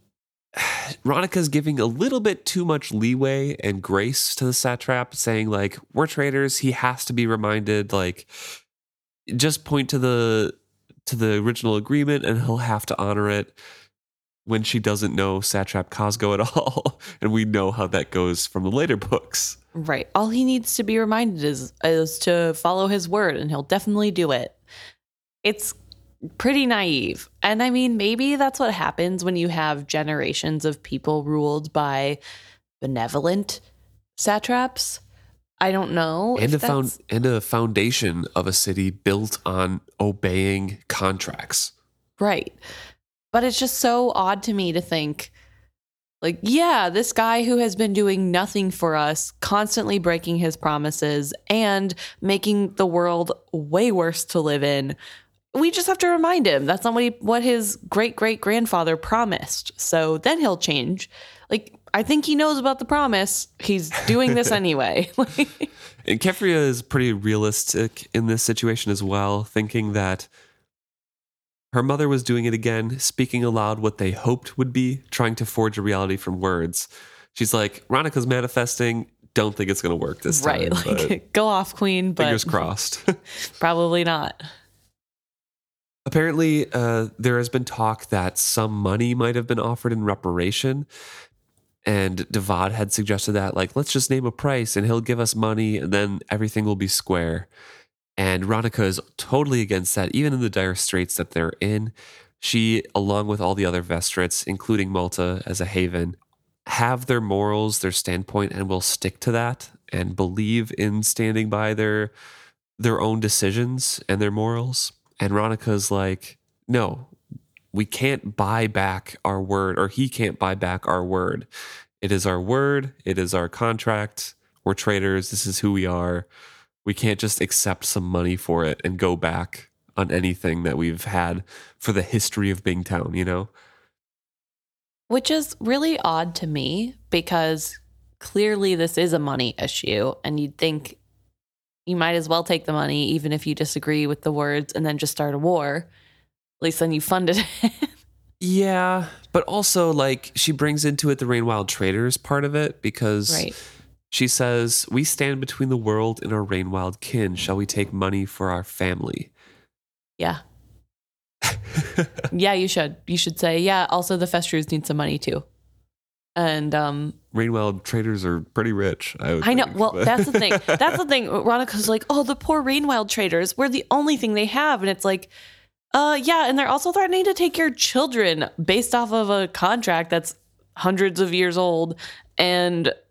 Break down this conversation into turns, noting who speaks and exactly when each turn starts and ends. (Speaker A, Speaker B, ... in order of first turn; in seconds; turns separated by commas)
Speaker A: 0.5-8.3, Speaker A: 9.3-13.6, Speaker A: 14.4-19.6, Speaker B: 19.7-24.6, Speaker B: 25.4-25.8, Speaker B: 26.4-32.2, Speaker B: 32.8-33.6, Speaker B: 34.2-35.0, Speaker B: 35.6-36.9, Speaker A: 36.4-41.7, Speaker B: 42.2-42.6, Speaker B: 43.3-45.3, Speaker B: 46.2-55.0, Speaker B: 55.5-65.7, Speaker A: 66.0-70.3, Speaker A: 71.7-81.1, Speaker B: 80.3-82.6, Speaker A: 82.2-83.2, Speaker B: 83.6-84.4, Speaker A: 86.0-90.8, Speaker A: 91.8-97.5, Speaker A: 98.2-112.1, Speaker A: 112.8-117.1, Speaker A: 117.7-121.5, Speaker A: 122.0-126.3, Speaker A: 126.8-133.5, Speaker B: 135.1-141.0, Speaker B: 141.9-145.9, Speaker B: 146.6-147.9, Speaker A: 148.4-153.5, Speaker B: 153.3-153.5, Speaker A: 154.1-159.3, Speaker A: 161.5-162.1, Speaker B: 162.3-165.4, Speaker B: 166.3-167.2, Speaker A: 167.3-171.0, Speaker B: 169.4-175.3, Speaker B: 175.9-182.9